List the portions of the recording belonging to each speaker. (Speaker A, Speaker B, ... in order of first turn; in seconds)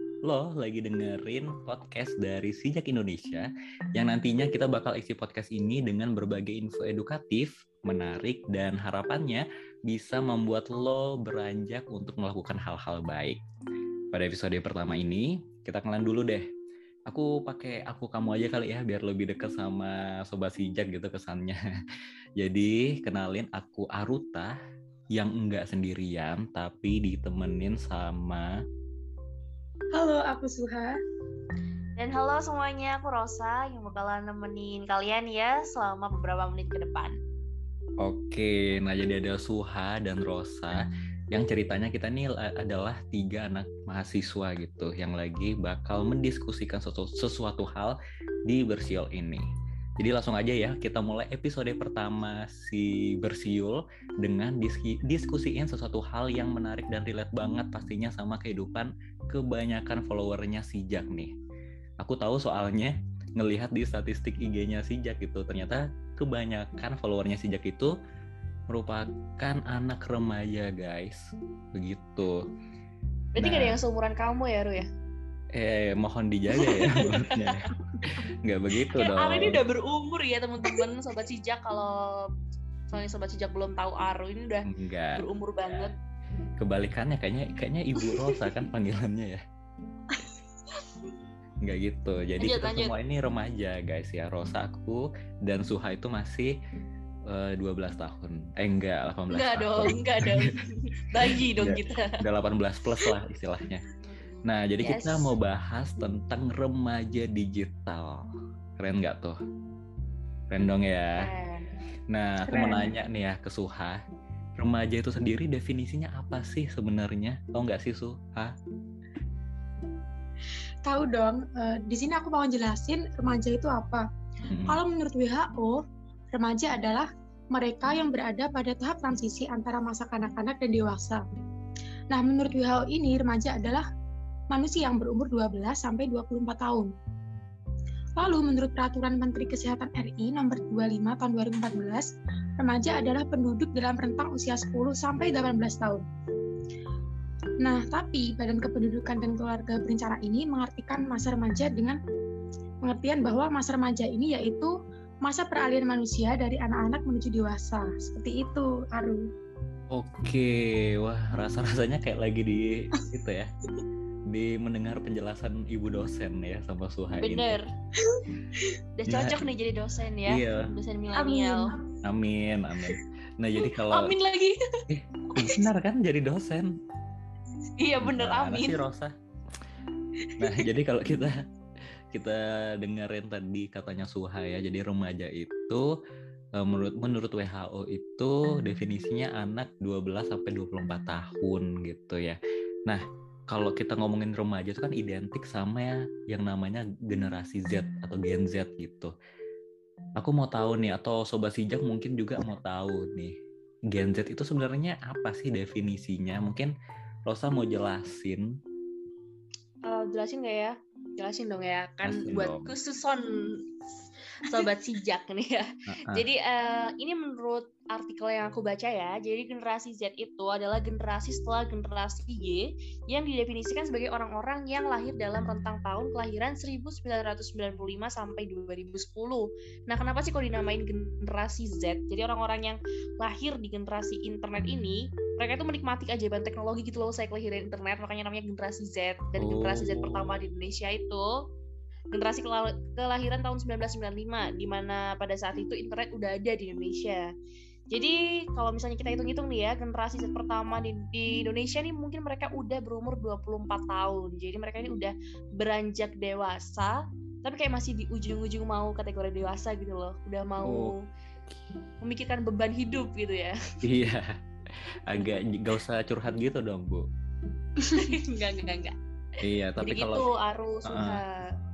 Speaker A: 0.2-13.4, 14.1-16.4, 17.1-21.6, 22.4-24.5, 25.1-28.6, 38.0-49.5, 50.0-61.3, 62.0-67.9, 68.7-71.2, 71.7-72.4, 73.4-73.8, 75.5-79.6, 84.7-85.2, 86.6-89.4, 91.6-96.5, 97.3-100.5, 101.5-103.8, 104.5-108.2, 108.8-109.4, 110.5-111.3, 112.1-114.0, 114.6-118.5, 124.5-124.8, 159.9-163.5, 164.3-167.6, 169.1-169.4, 170.3-170.7, 172.0-174.1, 174.9-176.7, 178.0-179.1, 180.4-181.3, 182.1-185.9, 186.6-199.1, 200.2-203.3, 203.9-206.7, 207.3-208.5, 212.0-212.7, 215.9-216.3, 239.4-240.3, 260.6-261.0, 263.8-264.3, 265.1-267.1, 269.4-270.3, 270.9-271.2
Speaker B: 29.9-31.0, 112.4-112.9, 120.8-124.0, 124.7-125.8, 126.3-131.2, 132.1-133.8, 134.5-136.9, 138.2-146.1, 147.6-152.0, 152.8-159.3, 168.0-168.6, 171.1-171.7
Speaker C: 32.0-37.2, 73.3-74.9, 76.6-77.5, 78.9-82.3, 82.9-85.9, 92.4-93.0, 99.3-102.1, 104.0-105.3, 111.2-111.7, 167.2-167.6, 169.0-171.7, 173.6-174.6, 177.8-178.8, 209.9-213.7, 214.4-241.4, 242.1-247.3, 247.9-261.0, 262.0-263.6, 267.9-268.9, 269.8-271.5